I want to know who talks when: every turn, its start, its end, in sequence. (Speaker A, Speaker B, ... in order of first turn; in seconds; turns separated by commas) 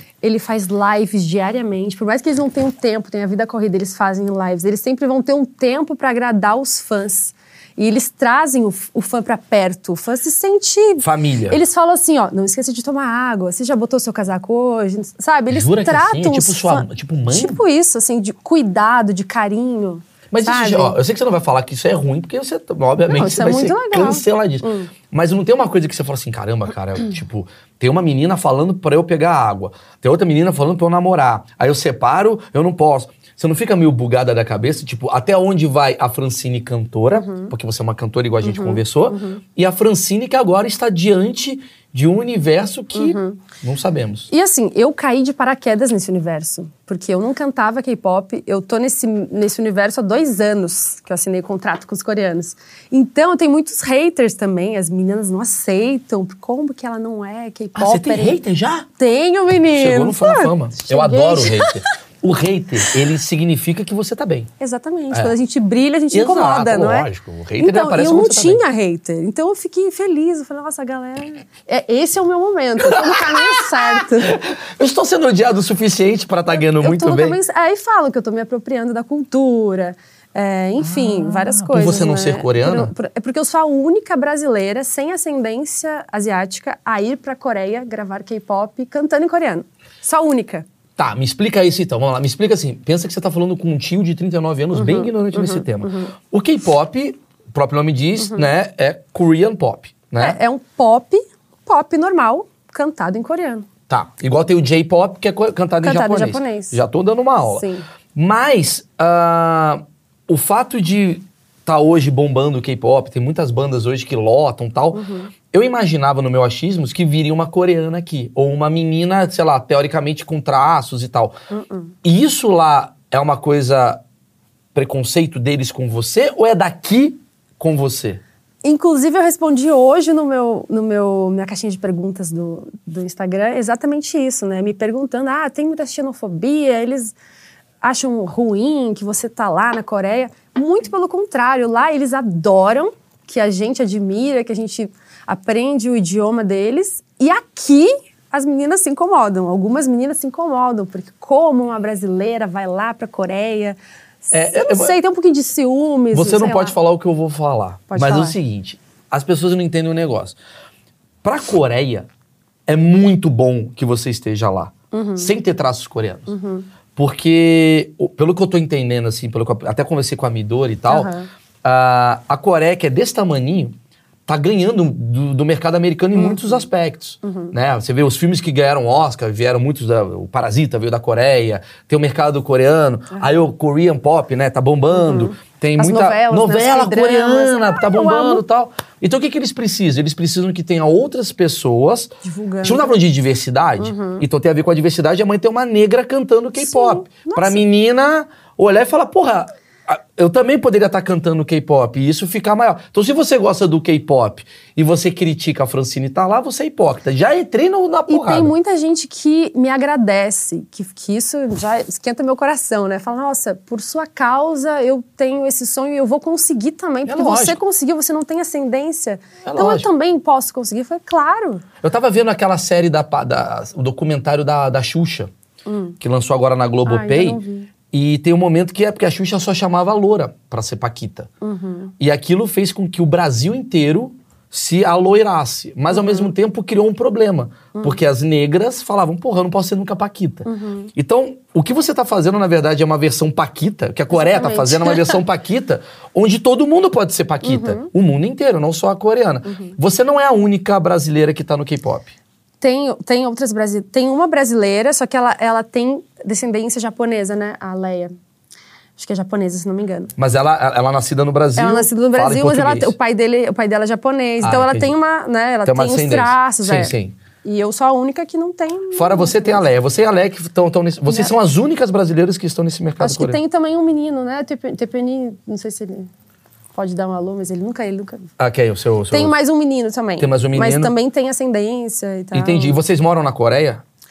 Speaker A: 0.2-21.0, Speaker B: 11.0-11.6, Speaker B: 15.5-17.6, Speaker B: 20.3-44.3, Speaker A: 23.1-24.9, Speaker A: 37.1-37.5, Speaker A: 38.4-39.4, Speaker A: 42.9-43.4, Speaker A: 44.3-58.4, Speaker B: 57.7-58.9, Speaker A: 59.0-61.8, Speaker B: 59.7-64.5, Speaker A: 64.6-74.4, Speaker B: 66.1-68.6, Speaker B: 72.8-77.4, Speaker A: 76.8-90.7, Speaker B: 80.8-82.9, Speaker B: 91.0-100.4, Speaker A: 94.7-96.1, Speaker A: 98.2-98.5, Speaker A: 100.2-103.7, Speaker B: 103.9-121.3, Speaker A: 105.8-106.8, Speaker A: 107.5-107.8, Speaker A: 114.9-115.3, Speaker A: 121.5-121.9, Speaker B: 122.0-124.0, Speaker B: 124.7-128.2, Speaker A: 128.6-137.1, Speaker A: 137.8-156.8, Speaker B: 154.3-154.9, Speaker B: 156.1-160.3, Speaker A: 157.9-158.4, Speaker B: 161.2-162.1, Speaker B: 162.7-166.3, Speaker A: 164.9-165.3, Speaker A: 166.3-166.7, Speaker B: 166.9-171.1, Speaker A: 170.9-171.3, Speaker B: 171.6-173.7, Speaker B: 174.3-208.5, Speaker A: 176.1-176.7, Speaker A: 177.2-177.5, Speaker A: 184.9-188.4, Speaker A: 192.2-193.0, Speaker A: 193.8-194.2, Speaker A: 196.6-197.6, Speaker A: 208.1-221.6, Speaker B: 217.0-217.6, Speaker B: 219.4-219.9, Speaker B: 221.8-225.3, Speaker A: 225.7-226.0, Speaker B: 226.0-231.3, Speaker A: 226.8-227.7, Speaker A: 231.4-231.9, Speaker B: 232.0-252.1, Speaker A: 235.9-236.3, Speaker A: 240.4-240.9, Speaker A: 244.1-245.2, Speaker A: 247.4-247.9, Speaker A: 249.4-249.8, Speaker A: 252.6-258.1, Speaker A: 259.0-260.1, Speaker B: 260.2-262.9, Speaker A: 261.6-269.6, Speaker B: 264.4-264.9, Speaker B: 265.6-267.2, Speaker B: 268.9-273.4, Speaker A: 273.0-276.1, Speaker A: 276.7-278.3, Speaker B: 278.4-279.3, Speaker A: 279.1-282.8, Speaker B: 280.2-280.9, Speaker B: 282.3-283.8